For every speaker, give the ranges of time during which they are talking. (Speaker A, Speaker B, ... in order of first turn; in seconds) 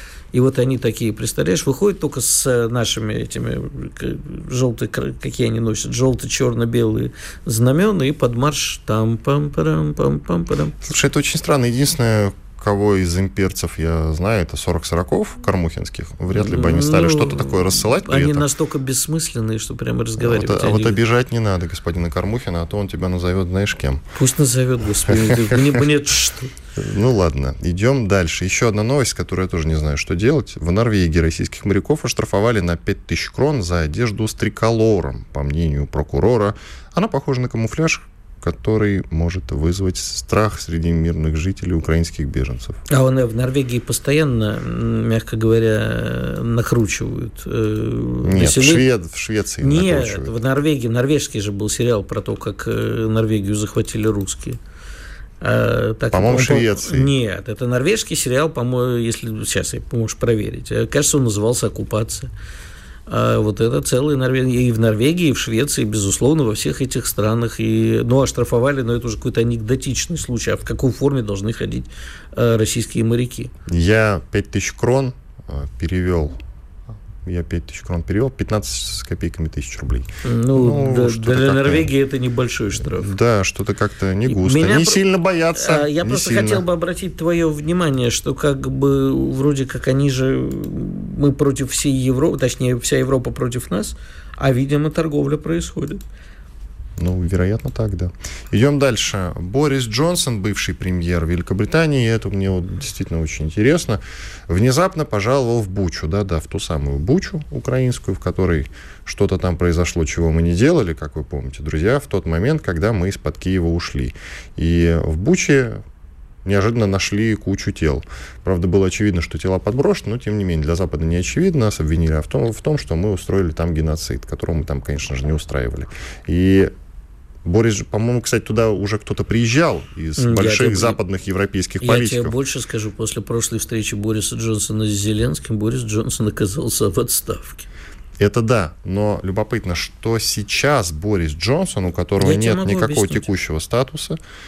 Speaker A: 0.3-10.8, 16.3-21.0, 24.1-26.5, 42.9-48.8, 49.6-54.6, 55.4-62.3, 63.1-73.5, 80.2-83.1, 84.3-96.0, 130.2-131.0, 131.8-137.7, 142.2-143.3
Speaker B: 10.8-18.5, 20.2-24.0, 25.1-25.8, 26.8-42.8, 48.2-50.3, 56.1-57.1, 73.7-76.4, 77.2-81.9, 82.8-86.6, 97.0-115.8, 116.4-126.7, 127.4-132.3, 138.2-144.2